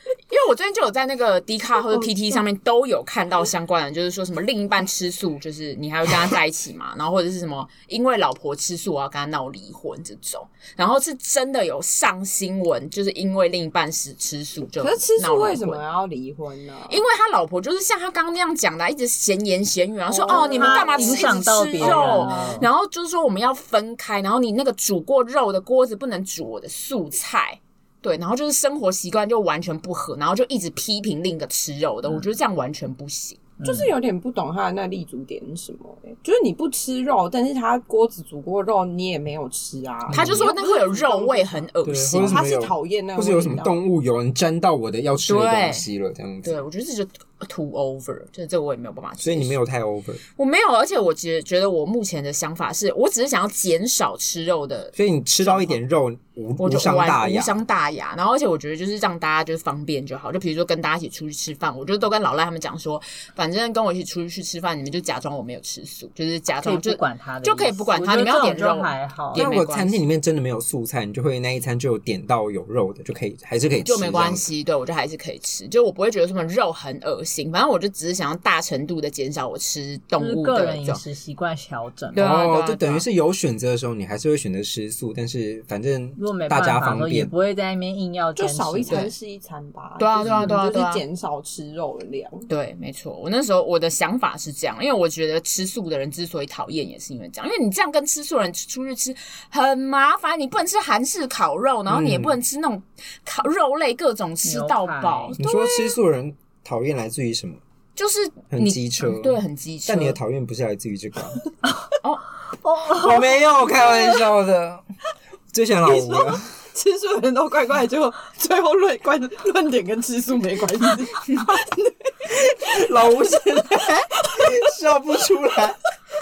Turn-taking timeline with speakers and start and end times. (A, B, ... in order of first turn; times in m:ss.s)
0:00.3-0:15.8 A
0:01.9-0:02.4 B
0:14.8-0:17.0 B
0:16.9-0:33.4 A
0:20.1-0:22.6 B
0:20.4-0:22.7 C
0:33.6-0:33.9 C
0:33.6-0:41.7 B
0:40.1-0:40.4 D
0:40.1-0:42.4 A
0:41.8-0:46.6 D
0:42.2-0:43.8 B
0:45.3-0:45.8 A
0:46.4-0:49.6 A
0:49.2-0:50.2 D
0:50.4-0:55.8 A
0:54.9-0:57.6 D
0:56.6-1:10.0 A
1:06.6-1:09.4 C
1:09.3-1:14.4 D
1:13.8-1:21.0 A
1:20.2-1:22.3 C
1:22.1-1:23.1 A
1:22.1-1:27.3 D
1:26.2-1:29.0 C
1:28.4-1:32.5 B
1:28.9-1:29.1 A
1:30.0-1:31.0 A
1:30.2-1:30.5 D
1:32.5-1:45.4 A
1:41.9-1:42.4 D
1:44.4-1:45.4 C
1:45.4-1:47.6 D
1:45.4-1:46.0 B
1:48.0-1:50.2 A
1:48.5-1:51.4 D
1:52.6-1:53.3 C
1:52.9-1:54.8 D
1:53.6-1:54.2 B
1:55.5-1:56.4 D
1:55.8-2:02.1 B
2:02.3-2:05.8 D